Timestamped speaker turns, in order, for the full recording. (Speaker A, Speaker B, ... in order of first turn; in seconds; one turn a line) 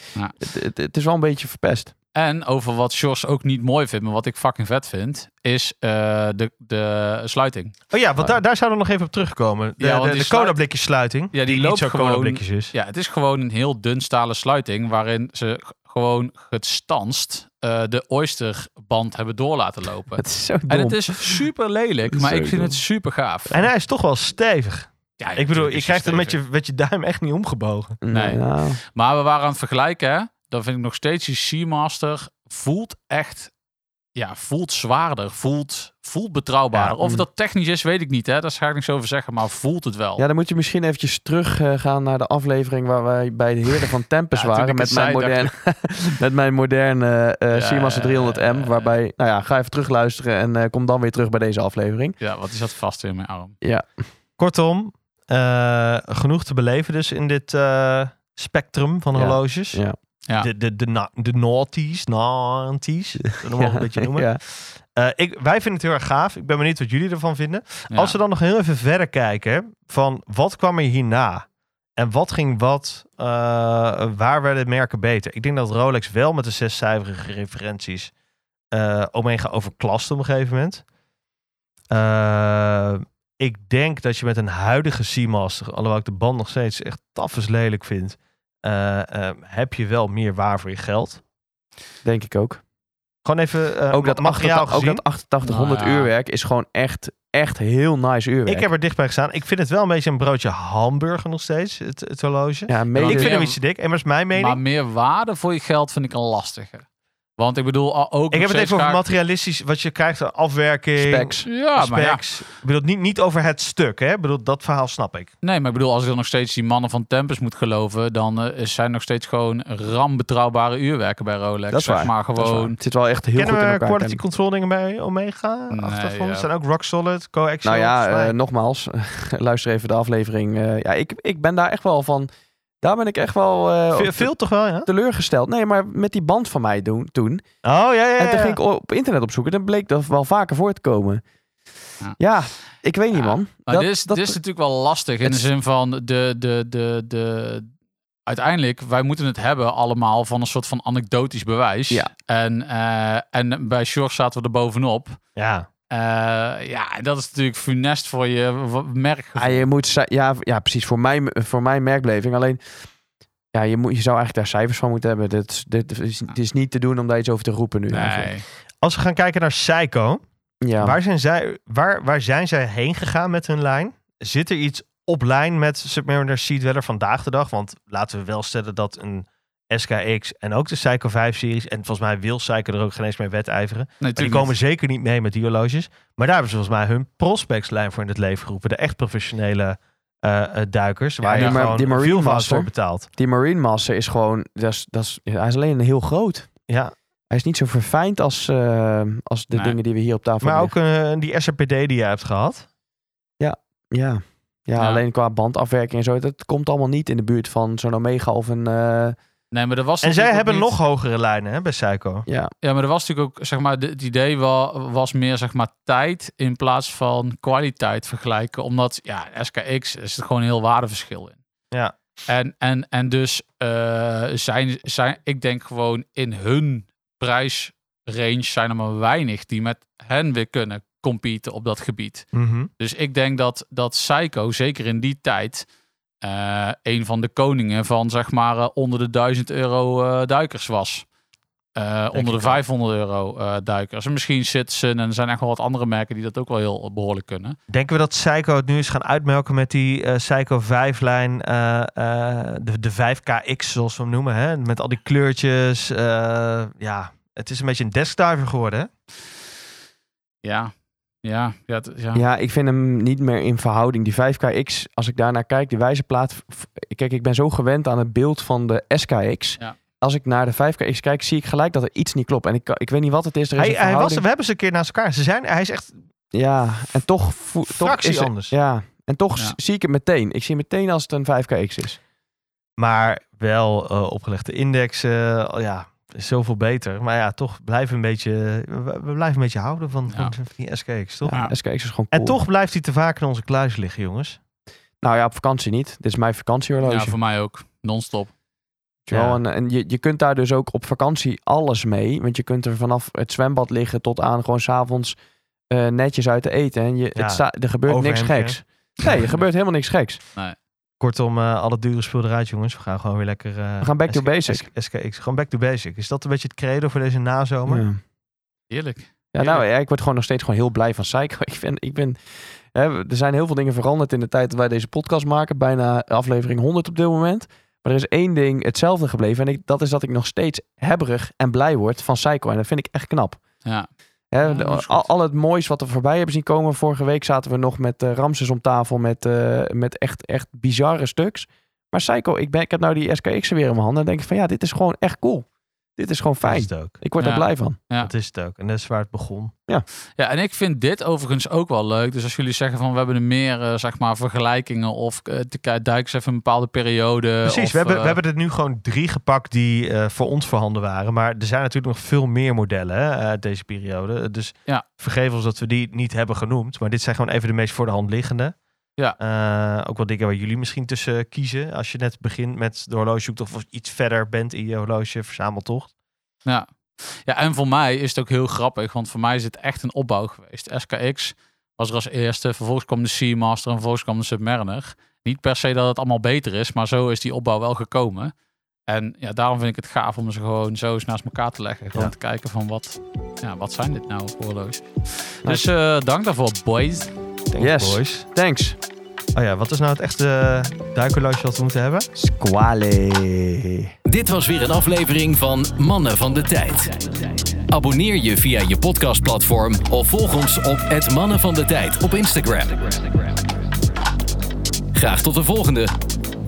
Speaker A: 0.4-1.9
Speaker B: 2.1-7.7
Speaker C: 7.9-12.7
Speaker B: 9.8-10.6
Speaker B: 11.3-23.6
Speaker A: 20.1-21.4
Speaker A: 22.1-22.8
Speaker C: 23.5-28.0
Speaker B: 25.2-26.4
Speaker A: 28.0-28.8
Speaker B: 28.1-33.5
Speaker B: 34.1-40.2
Speaker A: 37.0-37.2
Speaker A: 40.2-52.1
Speaker B: 44.3-45.5
Speaker B: 47.5-48.9
Speaker B: 52.2-53.5
Speaker A: 53.6-53.9
Speaker C: 54.4-59.8
Speaker A: 59.1-60.0
Speaker C: 60.4-78.1
Speaker A: 63.3-64.4
Speaker B: 67.9-68.2
Speaker C: 78.7-80.8
Speaker C: 81.9-91.2
Speaker A: 92.0-92.6
Speaker C: 93.2-95.0
Speaker A: 93.9-98.7
Speaker B: 95.4-96.1
Speaker C: 98.5-104.6
Speaker A: 102.7-103.4
Speaker B: 102.9-103.6
Speaker B: 104.3-106.8
Speaker B: 107.4-109.0
Speaker C: 108.3-115.3
Speaker A: 111.0-111.5
Speaker B: 111.5-112.2
Speaker B: 115.4-122.8
Speaker A: 121.7-124.2
Speaker C: 123.3-128.3
Speaker B: 125.7-126.5
Speaker A: 127.6-132.3
Speaker A: 132.8-134.3
Speaker C: 133.9-134.9
Speaker A: 134.8-137.4
Speaker C: 137.6-138.6
Speaker A: 138.2-141.2
Speaker A: 142.2-144.4
Speaker B: 143.1-147.7
Speaker A: 145.2-145.5
Speaker B: 148.3-155.2
Speaker C: 155.4-155.7
Speaker B: 155.9-159.7
Speaker A: 159.4-162.6
Speaker A: 163.5-168.3
Speaker B: 167.9-168.4
Speaker C: 168.8-170.2
Speaker A: 170.6-171.0
Speaker C: 170.8-193.1
Speaker B: 184.0-184.5
Speaker B: 191.2-191.6
Speaker A: 191.3-196.5
Speaker C: 196.7-196.9
Speaker A: 197.3-200.7
Speaker C: 200.4-202.7
Speaker A: 203.4-209.2
Speaker B: 209.5-210.7
Speaker C: 210.0-212.2
Speaker A: 212.2-212.5
Speaker B: 212.6-221.4
Speaker B: 222.3-232.3
Speaker C: 232.3-232.7
Speaker B: 232.8-235.7
Speaker B: 236.2-241.0
Speaker B: 241.8-247.6
Speaker C: 242.1-242.6
Speaker C: 247.7-258.9
Speaker B: 260.4-262.2
Speaker A: 262.1-274.2
Speaker C: 273.6-276.0
Speaker A: 276.3-282.0
Speaker C: 277.7-278.5
Speaker C: 282.8-291.4
Speaker A: 291.2-292.4
Speaker C: 292.1-294.4
Speaker A: 295.0-297.1
Speaker B: 296.8-298.3
Speaker C: 299.1-299.4
Speaker A: 299.1-305.1
Speaker A: 305.7-310.2
Speaker C: 307.1-308.6
Speaker B: 309.1-309.4
Speaker C: 311.0-317.8
Speaker A: 313.8-314.7
Speaker A: 317.6-318.0
Speaker B: 318.7-319.6
Speaker A: 319.3-333.4
Speaker A: 334.3-347.8
Speaker B: 334.4-335.0
Speaker C: 346.4-347.0
Speaker B: 347.2-348.1
Speaker C: 348.0-349.5
Speaker B: 350.2-358.2
Speaker C: 357.4-368.6
Speaker C: 369.2-375.9
Speaker B: 376.4-388.3
Speaker B: 388.9-397.1
Speaker C: 397.5-398.2
Speaker A: 397.6-398.8
Speaker C: 399.3-402.1
Speaker A: 402.1-403.9
Speaker D: 404.1-407.1
Speaker D: 407.7-413.2
Speaker D: 414.9-415.9